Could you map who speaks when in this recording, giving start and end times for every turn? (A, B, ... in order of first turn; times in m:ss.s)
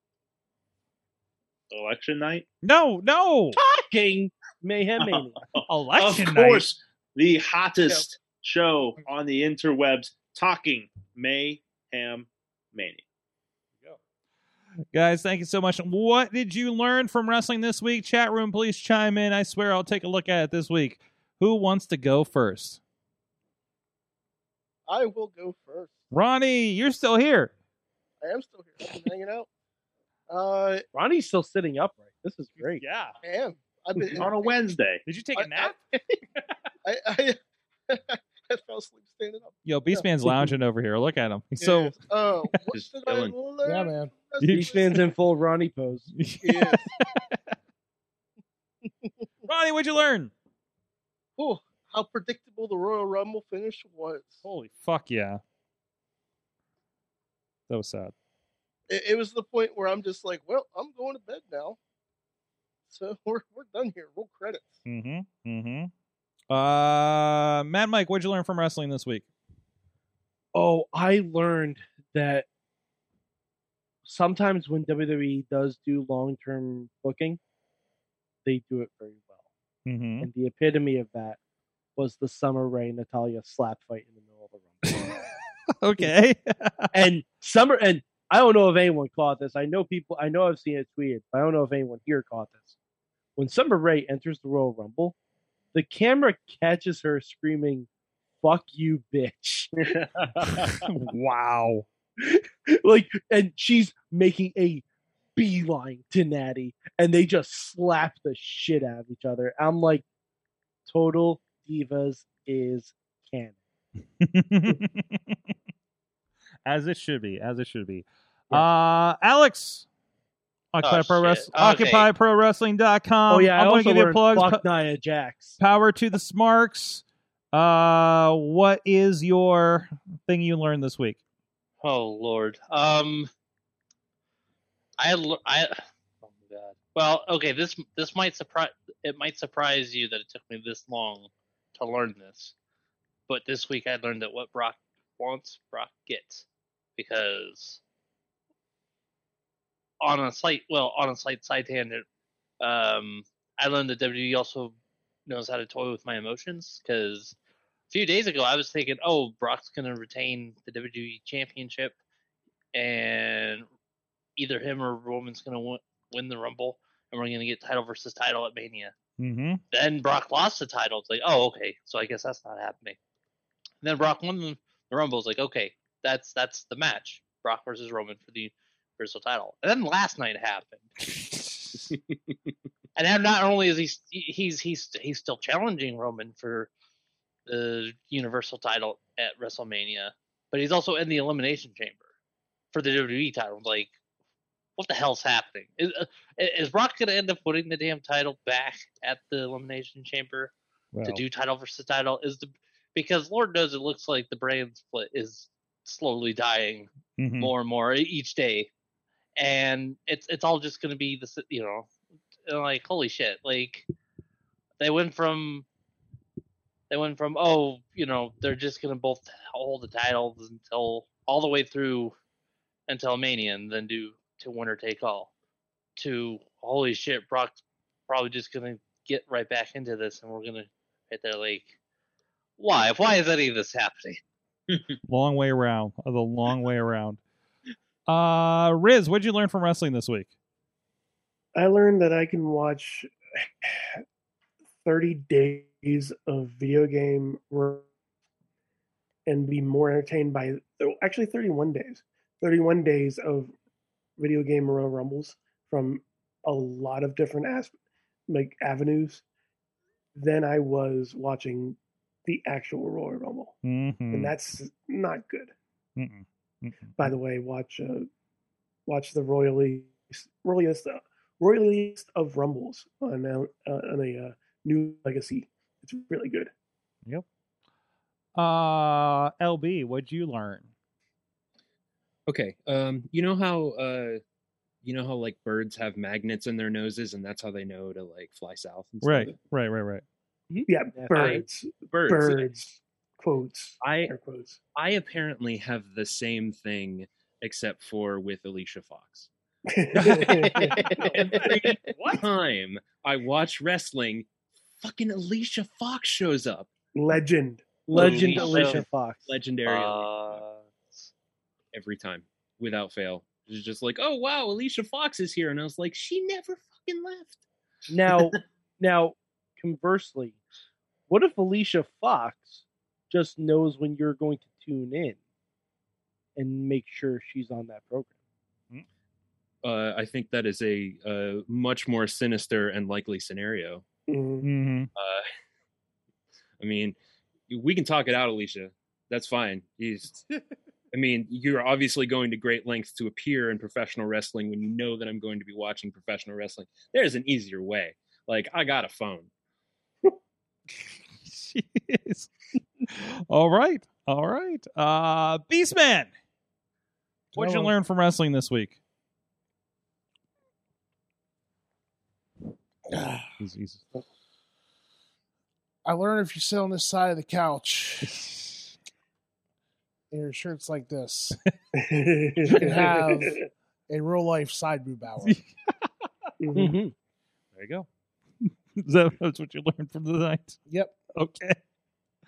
0:01.7-0:02.4 A
0:02.6-0:03.6 B
0:03.5-0:05.4 C
0:05.0-0:13.0 A
0:05.7-0:06.7 B
0:14.9-0:22.8 B
0:24.9-0:26.0 D
0:26.1-0:27.5 B
0:28.2-0:29.5 D
0:30.3-0:30.8 D
0:30.9-0:32.8 C
0:32.8-0:33.1 B
0:33.2-0:34.6 D
0:34.2-0:35.0 A
0:35.0-0:35.8 B
0:35.4-0:35.8 D
0:36.8-0:37.4 D
0:37.9-0:40.0 D
0:39.6-0:42.0 B
0:41.6-0:45.0 D
0:42.7-0:43.4 E
0:43.6-0:44.1 F
0:44.4-0:44.8 B
0:44.5-0:46.1 C
0:46.1-0:47.3 B
0:46.4-0:46.9 D
0:49.4-0:50.3 B
0:51.4-0:54.4 D
0:54.4-0:55.4 B
0:57.7-0:58.1 B
0:58.9-1:01.8 D
1:02.9-1:04.8 D
1:04.8-1:05.9 B
1:06.5-1:09.2 B
1:10.5-1:12.4 C
1:14.0-1:17.4 C
1:18.4-1:19.3 C
1:19.8-1:20.3 B
1:20.2-1:21.4 C
1:22.0-1:25.1 C
1:25.8-1:27.1 B
1:26.9-1:32.8 C
1:33.4-1:35.2 C
1:35.7-1:37.9 C
1:38.4-1:39.7 C
1:39.8-1:40.9 A
1:40.5-1:41.8 B
1:42.2-1:44.8 C
1:45.4-1:50.0 C
1:50.9-1:53.6 C
1:54.2-1:55.4 B
1:56.6-1:59.8 B
2:00.7-2:04.6 B
2:00.8-2:02.1 G
2:03.3-2:05.6 C
2:05.6-2:11.2 B
2:11.8-2:13.3 G
2:15.0-2:22.5 G
2:23.3-2:26.4 G
2:27.0-2:27.8 G
2:30.0-2:32.0 G
2:32.6-2:37.4 G
2:37.9-2:42.0 G
2:42.7-2:43.7 G
2:44.4-2:48.9 G
2:49.2-2:49.6 B
2:49.7-2:53.0 G
2:53.8-3:00.9 G
3:03.0-3:06.7 G
3:07.4-3:12.1 G
3:12.7-3:14.0 G
3:14.8-3:28.7 G
3:20.9-3:21.2 B
3:27.2-3:27.5 B
3:29.4-3:31.9 G
3:32.5-3:33.9 G
3:34.8-3:35.6 G
3:36.9-3:42.1 G
3:42.9-3:45.3 G
3:46.0-3:51.7 G
3:52.6-3:54.2 G
3:55.1-3:57.2 B
3:58.1-4:00.3 B
4:01.5-4:03.1 H
4:03.6-4:04.0 H
4:04.8-4:07.9 H
4:09.3-4:13.5 H
4:14.2-4:17.7 H
4:18.3-4:19.2 H
4:20.1-4:23.6 H
4:23.6-4:24.3 B
4:24.1-4:25.5 H
4:26.0-4:27.1 B
4:27.0-4:28.1 H
4:28.9-4:36.5 H
4:38.3-4:40.7 B
4:42.3-4:44.2 E
4:44.8-4:49.4 E
4:49.0-4:50.0 B
4:50.5-4:51.4 C
4:50.7-4:54.6 H
4:51.9-4:52.3 E
4:53.8-4:54.1 E
4:54.7-4:59.3 E
4:59.7-5:01.0 H
4:59.9-5:01.6 C
5:01.3-5:04.3 E
5:04.8-5:06.7 E
5:06.9-5:07.9 H
5:07.9-5:09.3 C
5:07.9-5:10.4 E
5:08.0-5:08.8 G
5:09.6-5:11.1 G
5:11.7-5:17.4 E
5:17.9-5:20.4 C
5:21.1-5:25.2 C
5:26.4-5:28.1 C
5:29.6-5:33.8 E
5:34.1-5:34.5 H
5:34.4-5:34.9 B
5:35.0-5:35.2 E
5:36.6-5:37.0 E
5:37.5-5:40.2 E
5:40.9-5:49.3 E
5:51.2-5:52.3 B
5:52.9-5:56.1 B
5:57.3-5:57.7 F
5:57.3-5:58.8 B
6:02.9-6:03.3 F
6:03.4-6:03.8 B
6:05.8-6:08.2 F
6:08.0-6:08.6 B
6:10.1-6:11.4 F
6:11.7-6:13.4 H
6:12.5-6:15.4 F
6:12.5-6:12.8 B
6:15.2-6:15.9 B
6:16.4-6:16.8 H
6:16.5-6:16.9 C
6:17.5-6:17.9 B
6:18.4-6:20.6 B
6:20.7-6:21.0 F
6:21.1-6:21.6 B